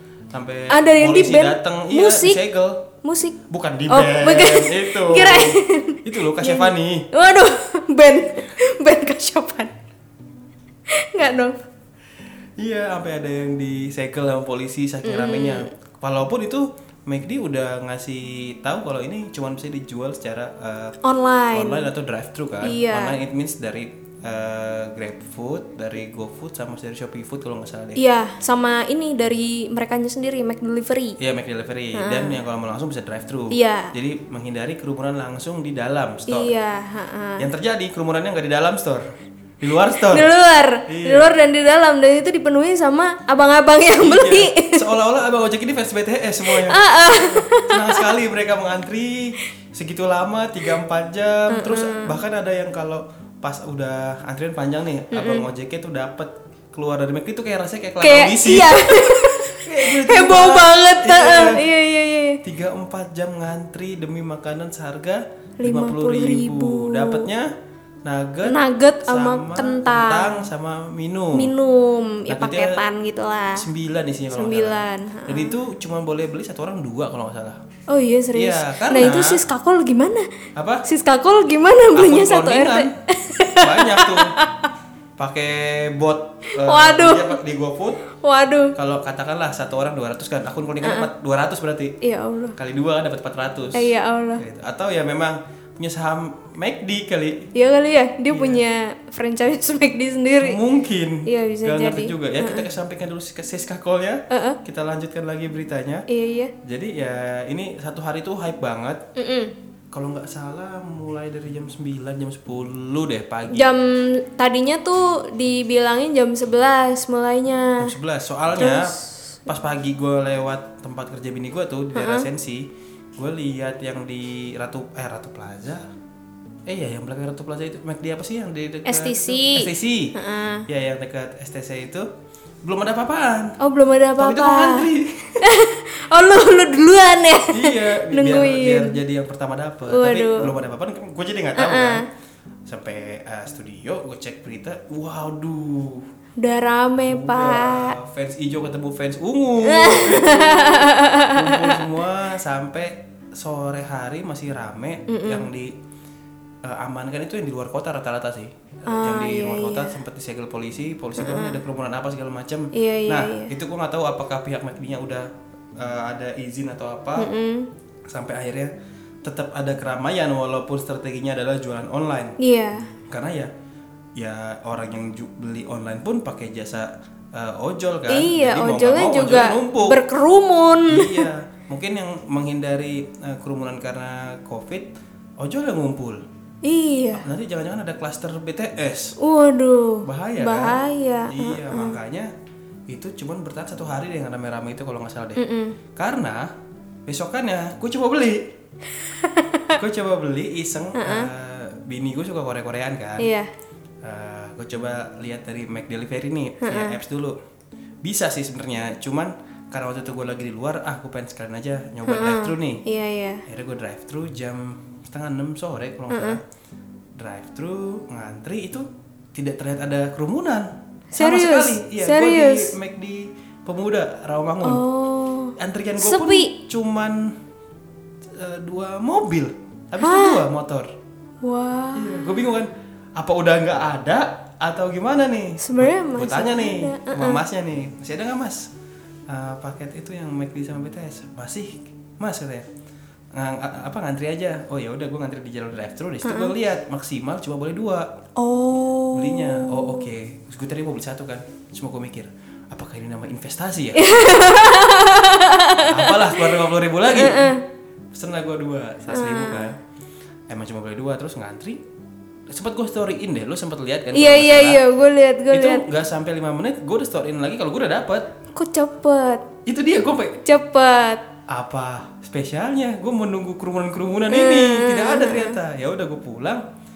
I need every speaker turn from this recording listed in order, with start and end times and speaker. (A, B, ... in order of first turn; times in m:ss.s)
0:00.3-0:02.9 A
0:00.7-0:02.4 B
0:03.0-0:03.4 B
0:03.5-0:07.1 A
0:03.9-0:09.8 B
0:10.9-0:11.6 B
0:12.6-0:21.0 A
0:15.0-0:15.7 B
0:21.0-0:21.9 B
0:21.5-0:28.0 A
0:22.6-0:23.2 B
0:28.0-0:31.2 B
0:31.2-0:36.5 A
0:32.0-0:32.4 B
0:33.5-0:33.9 B
0:36.3-0:37.5 B
0:37.4-0:39.0 A
0:39.6-0:40.3 A
0:40.1-0:44.9 B
0:40.9-0:41.3 A
0:44.0-1:01.6 A
0:46.4-0:48.1 B
0:51.5-0:52.2 B
0:55.1-0:55.5 B
0:58.0-1:02.4 B
1:02.4-1:07.5 A
1:05.6-1:07.3 B
1:08.0-1:11.5 A
1:08.4-1:10.5 B
1:11.3-1:13.7 B
1:12.3-1:12.8 A
1:13.6-1:17.6 A
1:14.3-1:15.6 B
1:17.9-1:20.3 B
1:18.3-1:19.4 A
1:20.6-1:20.8 A
1:20.9-1:24.7 B
1:22.0-1:22.9 A
1:23.5-1:24.3 A
1:25.2-1:28.1 A
1:26.6-1:27.4 B
1:28.2-1:28.8 B
1:28.8-1:32.0 A
1:30.8-1:31.1 B
1:32.0-1:32.6 B
1:32.6-1:37.5 A
1:33.7-1:34.4 B
1:37.6-1:40.6 B
1:38.3-1:38.6 A
1:40.4-1:46.0 A
1:41.3-1:42.6 B
1:44.3-1:44.6 B
1:46.1-1:46.5 B
1:46.6-1:49.0 A
1:49.2-1:49.5 B
1:49.9-1:53.7 A
1:53.5-1:57.9 B
1:57.8-2:02.7 A
1:58.6-1:59.2 B
2:01.9-2:02.3 B
2:03.2-2:05.8 A
2:06.7-2:10.2 A
2:08.8-2:10.6 B
2:10.7-2:12.1 A
2:12.6-2:13.6 A
2:13.6-2:19.0 B
2:14.2-2:15.4 A
2:17.5-2:22.0 A
2:19.9-2:20.5 B
2:21.6-2:22.1 B
2:22.7-2:26.1 A
2:26.4-2:28.0 B
2:27.1-2:35.7 A
2:29.6-2:31.8 B
2:35.1-2:35.5 B
2:36.6-2:45.3 A
2:38.9-2:40.0 B
2:41.2-2:41.6 B
2:42.7-2:43.5 B
2:45.8-2:47.3 A
2:47.2-2:47.7 B
2:48.1-2:48.7 A
2:49.2-2:52.4 A
2:52.4-2:52.9 B
2:53.1-2:53.5 A
2:54.2-3:00.0 A
2:58.1-3:01.3 B
3:00.9-3:06.2 A
3:06.6-3:07.2 B
3:07.1-3:09.2 A
3:09.2-3:12.0 B
3:10.0-3:12.3 A
3:12.9-3:15.4 A
3:15.4-3:15.8 B
3:16.0-3:16.5 A
3:17.1-3:18.5 A
3:19.0-3:19.8 B
3:19.8-3:23.3 A
3:21.0-3:21.3 B
3:23.2-3:23.5 B
3:24.0-3:27.4 A
3:26.6-3:27.0 B
3:28.0-3:32.8 A
3:32.0-3:33.4 B
3:33.5-3:36.4 A
3:36.1-3:36.4 B
3:37.2-3:44.8 A
3:41.1-3:42.7 B
3:44.6-3:46.5 B
3:45.6-3:47.3 A
3:48.3-3:50.9 A
3:50.0-3:50.4 B
3:51.4-3:52.3 B
3:52.0-3:58.7 A
3:55.6-3:57.4 B
3:59.3-4:02.7 A
4:03.3-4:08.1 A
4:06.2-4:06.5 B
4:08.4-4:10.1 B
4:09.1-4:14.1 A
4:14.0-4:17.6 B
4:15.9-4:17.6 A
4:18.1-4:19.8 A
4:19.1-4:19.7 B
4:20.5-4:21.8 A
4:22.5-4:24.8 A
4:24.1-4:25.8 B
4:25.5-4:28.3 A
4:28.6-4:29.5 B
4:29.7-4:30.4 A
4:30.4-4:31.2 B
4:31.5-4:36.6 A
4:34.3-4:35.6 B